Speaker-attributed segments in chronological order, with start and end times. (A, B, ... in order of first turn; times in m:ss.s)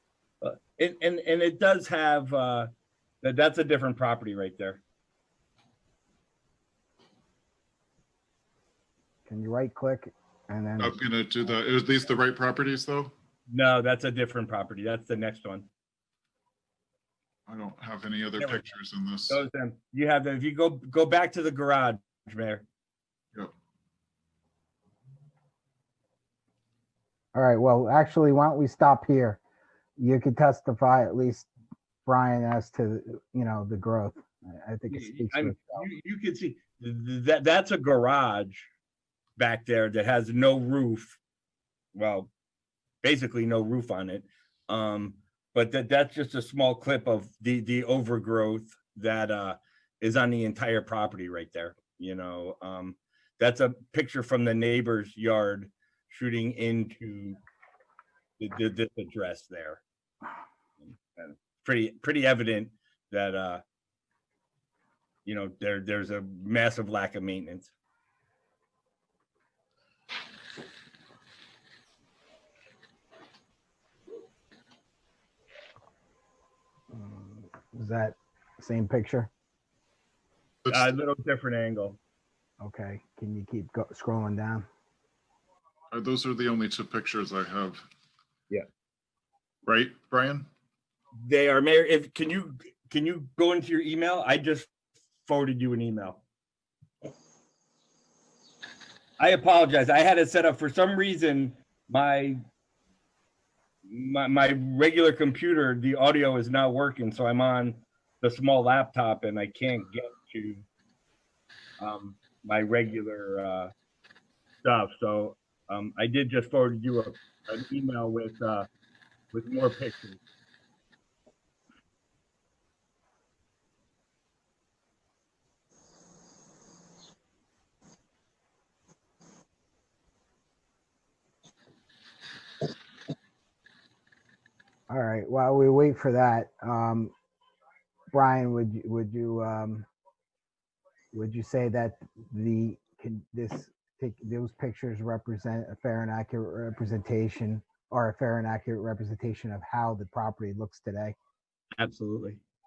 0:00.4-0:02.7 A
0:03.2-0:04.8 A
0:09.2-0:11.0 B
0:10.8-0:13.1 C
0:13.5-0:15.7 A
0:17.5-0:19.4 C
0:19.3-0:22.6 A
0:27.3-0:29.4 B
0:30.0-0:31.5 B
0:32.0-0:35.9 B
0:34.9-0:38.7 A
0:39.4-0:41.2 A
0:41.9-0:42.3 A
0:43.0-0:57.4 A
0:58.4-0:59.8 A
1:00.8-1:03.6 A
1:05.2-1:07.7 A
1:16.9-1:19.3 B
1:20.6-1:21.0 C
1:20.7-1:22.0 A
1:22.6-1:24.7 B
1:25.9-1:27.8 C
1:29.6-1:30.5 C
1:31.2-1:34.7 A
1:35.2-1:36.2 A
1:39.2-1:42.4 A
1:43.8-1:50.6 A
1:51.8-1:53.7 A
1:54.6-1:58.7 A
1:59.3-2:00.2 A
2:14.9-2:17.1 B
2:18.1-2:19.9 B
2:21.1-2:31.2 B
2:31.7-2:32.4 A